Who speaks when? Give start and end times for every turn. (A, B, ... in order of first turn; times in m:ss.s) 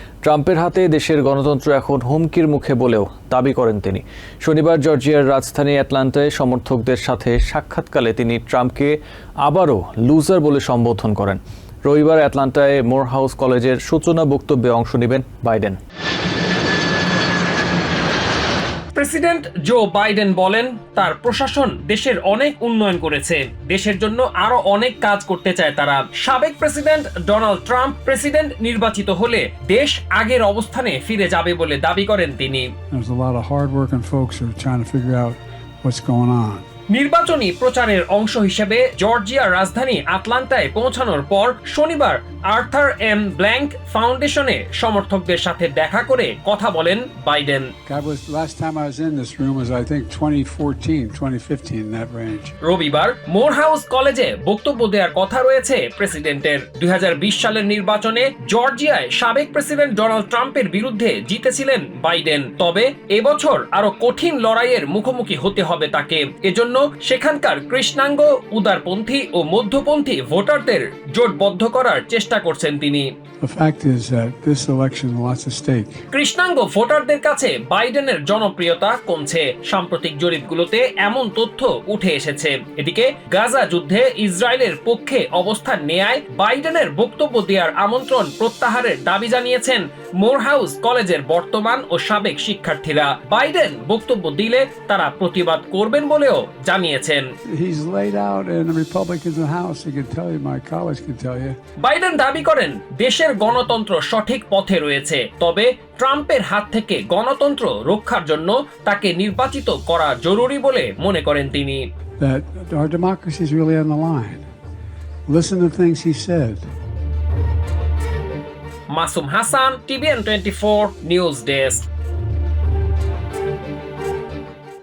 0:00.2-0:15.8 A
0:18.9-0:32.7 B
0:32.9-0:36.6 C
0:36.9-0:47.7 B
0:47.9-0:52.5 C
0:52.6-1:13.1 B
1:13.4-1:16.0 C
1:16.1-1:37.3 B
1:37.5-1:41.6 C
1:41.8-1:51.9 B
1:52.2-1:54.4 C
1:55.3-1:56.7 C
1:58.9-2:01.8 B